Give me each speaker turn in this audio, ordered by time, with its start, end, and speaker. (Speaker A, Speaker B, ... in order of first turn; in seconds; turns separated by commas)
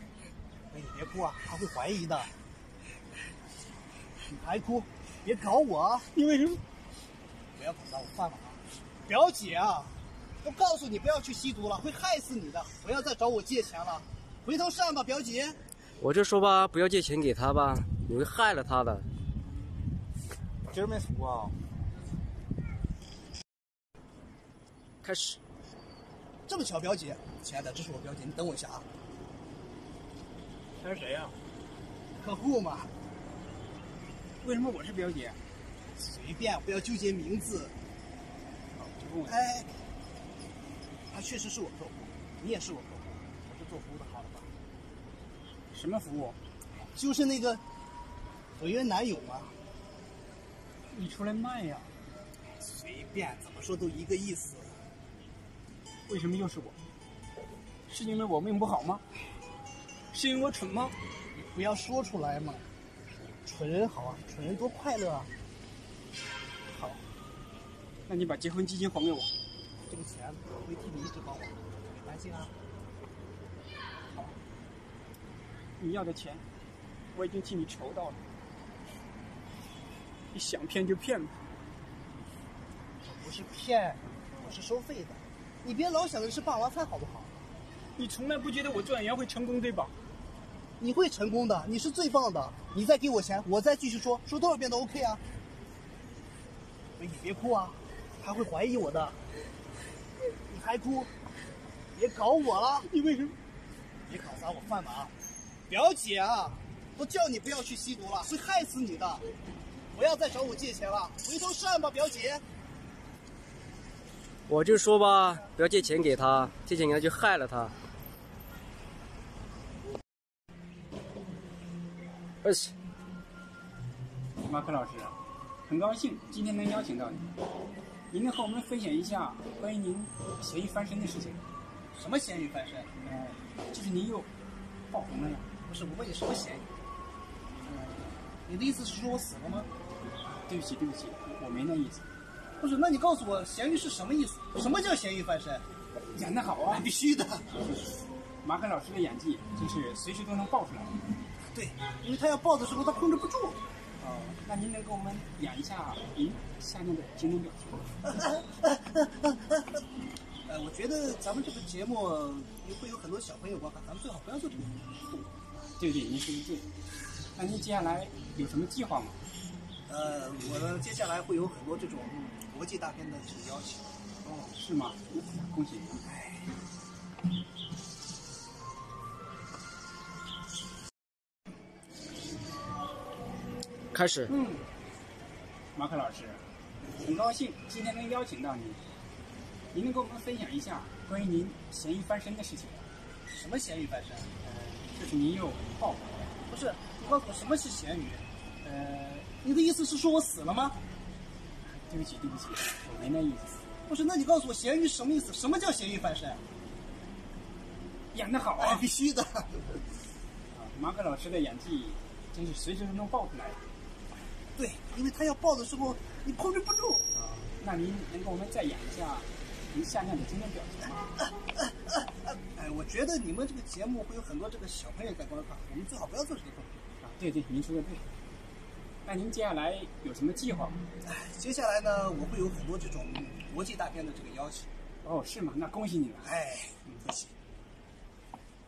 Speaker A: 0.7-2.3, Speaker A: 4.3-6.1, Speaker B: 6.2-6.6, Speaker A: 7.5-15.6, Speaker C: 16.0-19.1, Speaker B: 20.8-21.4, Speaker C: 25.0-25.4, Speaker A: 26.5-28.9, Speaker B: 30.8-31.3, Speaker A: 32.1-32.9, Speaker B: 34.4-35.4, Speaker A: 36.0-37.7, Speaker B: 38.7-39.4, Speaker A: 39.2-39.7, Speaker A: 41.1-44.5, Speaker B: 45.7-46.4, Speaker A: 46.9-47.6, Speaker A: 48.6-49.5, Speaker B: 50.9-51.9, Speaker A: 52.6-54.8, Speaker B: 56.1-56.8, Speaker B: 57.9-59.0, Speaker B: 60.1-60.9, Speaker A: 61.3-62.6, Speaker A: 63.4-65.3, Speaker A: 66.7-67.0, Speaker B: 68.1-69.3, Speaker A: 69.9-72.5, Speaker B: 75.8-76.4, Speaker B: 77.1-78.2, Speaker B: 80.3-81.3, Speaker A: 83.0-87.4, Speaker B: 88.0-90.0, Speaker A: 90.8-95.2, Speaker A: 97.0-99.2, Speaker A: 100.5-101.1, Speaker A: 101.9-102.9, Speaker B: 102.9-103.4, Speaker A: 104.0-105.1, Speaker A: 105.7-109.2, Speaker A: 109.9-112.4, Speaker C: 114.5-117.7, Speaker C: 122.4-122.7, Speaker B: 124.4-127.3, Speaker B: 128.1-131.4, Speaker A: 131.9-132.9, Speaker B: 133.0-134.3, Speaker B: 134.9-135.5, Speaker A: 135.6-136.7, Speaker A: 138.4-139.7, Speaker B: 140.5-142.0, Speaker A: 142.6-145.6, Speaker B: 146.0-146.9, Speaker A: 146.7-147.6, Speaker B: 147.6-147.9, Speaker B: 148.4-151.0, Speaker A: 151.5-153.6, Speaker B: 154.0-157.9, Speaker A: 158.1-159.8, Speaker A: 160.4-165.4, Speaker B: 165.7-166.7, Speaker B: 167.3-169.2, Speaker A: 169.9-174.5, Speaker B: 174.5-176.0, Speaker A: 176.0-176.5, Speaker C: 183.9-184.3, Speaker B: 184.3-184.5, Speaker B: 185.7-186.4, Speaker B: 187.0-188.8, Speaker B: 189.7-192.9, Speaker A: 193.2-194.3, Speaker B: 194.4-196.3, Speaker A: 196.5-198.2, Speaker B: 198.6-199.3, Speaker A: 199.4-200.8, Speaker B: 201.7-203.7, Speaker A: 203.9-206.4, Speaker B: 208.1-208.8, Speaker A: 208.6-209.8, Speaker B: 210.5-213.7, Speaker A: 214.5-217.1, Speaker B: 217.1-221.1, Speaker A: 221.6-226.8, Speaker B: 227.0-228.0, Speaker B: 229.0-230.8, Speaker A: 231.0-234.7, Speaker B: 235.0-236.3, Speaker A: 236.2-237.3